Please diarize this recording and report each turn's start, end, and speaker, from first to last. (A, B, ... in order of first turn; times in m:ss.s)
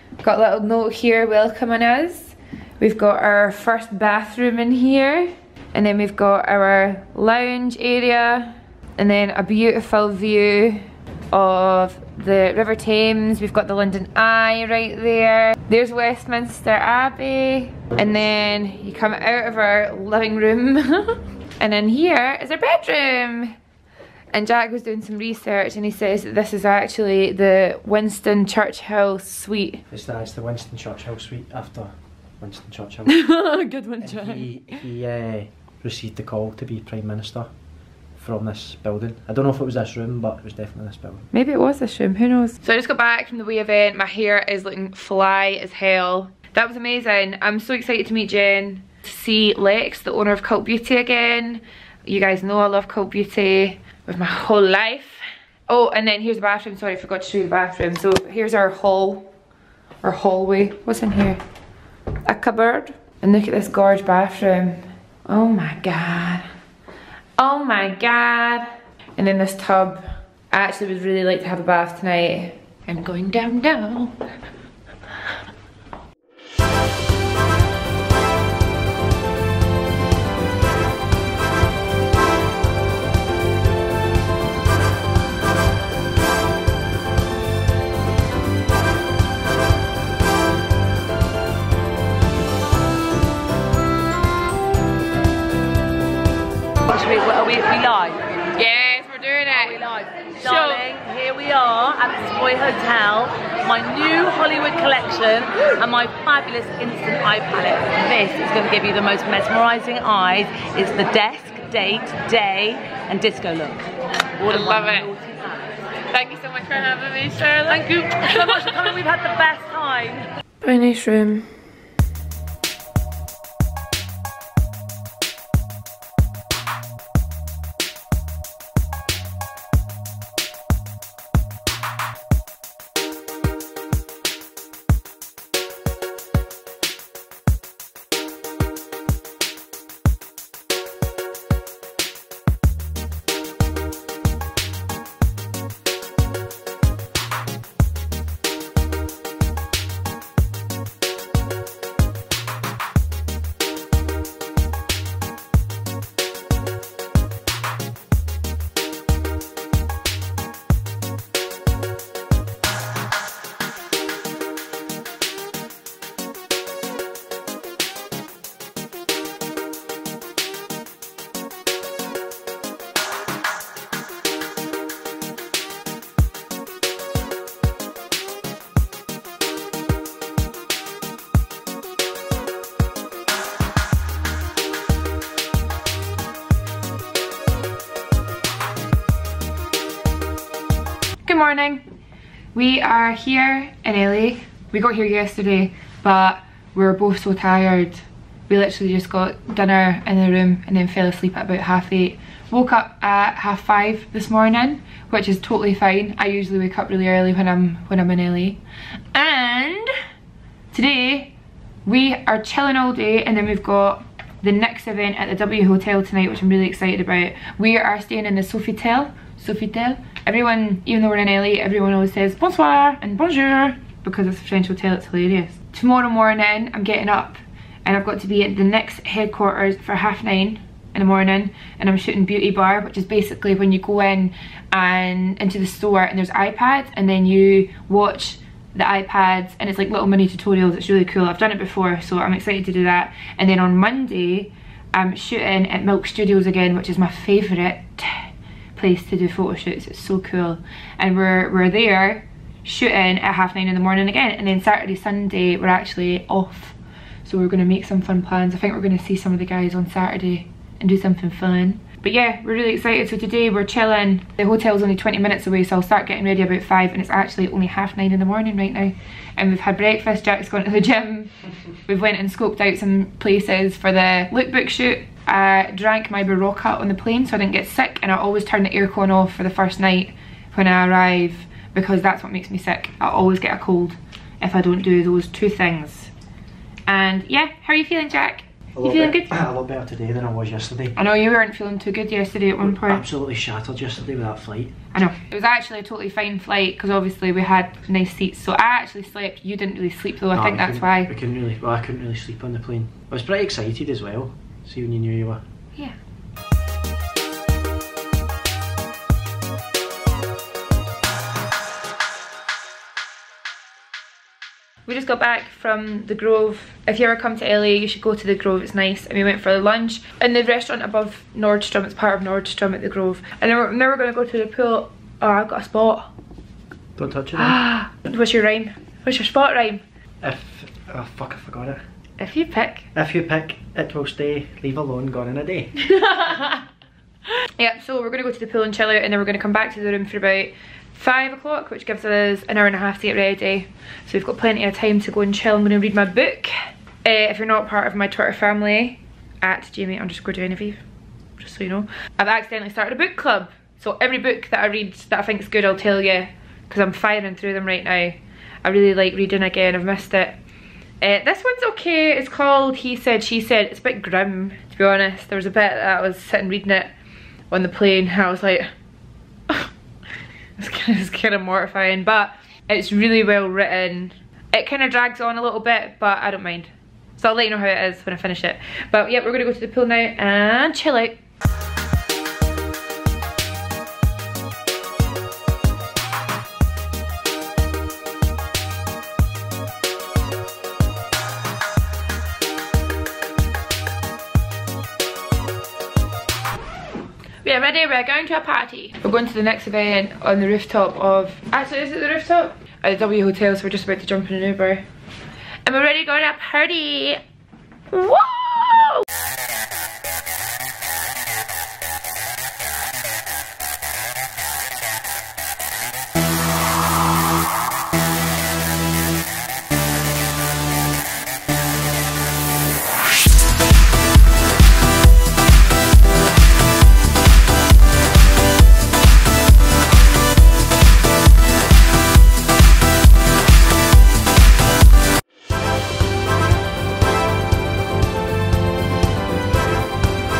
0:00.2-0:23.6 A
0:24.3-0:29.8 A
0:29.9-0:33.2 B
0:33.1-0:34.5 A
0:34.0-0:37.5 B
0:38.2-0:41.3 B
0:41.3-0:59.3 A
1:00.0-1:01.4 A
1:02.2-1:06.5 A
1:07.4-1:14.2 A
1:36.9-1:38.2 C
1:38.5-1:40.8 A
1:39.6-1:53.9 C
1:54.4-1:55.7 C
1:54.5-1:55.1 A
1:56.0-1:58.7 A
1:57.7-2:00.3 C
2:00.6-2:01.6 A
3:11.2-3:11.8 A
3:12.5-3:28.6 A
3:29.1-3:29.9 A
3:30.7-3:31.3 A
3:31.8-4:31.3 A
4:31.9-4:46.1 A
4:46.9-4:49.4 A
4:48.8-4:51.0 B
4:51.0-4:53.0 A
4:52.6-4:54.7 B
4:54.9-5:01.1 A
5:00.3-5:05.4 B
5:14.9-5:26.1 A
5:27.0-5:27.6 B
5:27.4-5:29.8 A
5:30.2-5:31.8 B
5:32.2-5:32.9 A
5:33.0-5:35.7 B
5:35.8-5:36.6 A
5:37.6-5:50.8 A
5:51.4-6:00.4 A
6:01.0-6:06.9 A
6:07.5-6:08.7 A
6:10.6-6:21.2 A
6:37.4-6:44.8 A
6:45.6-6:47.2 A
6:47.9-6:49.1 A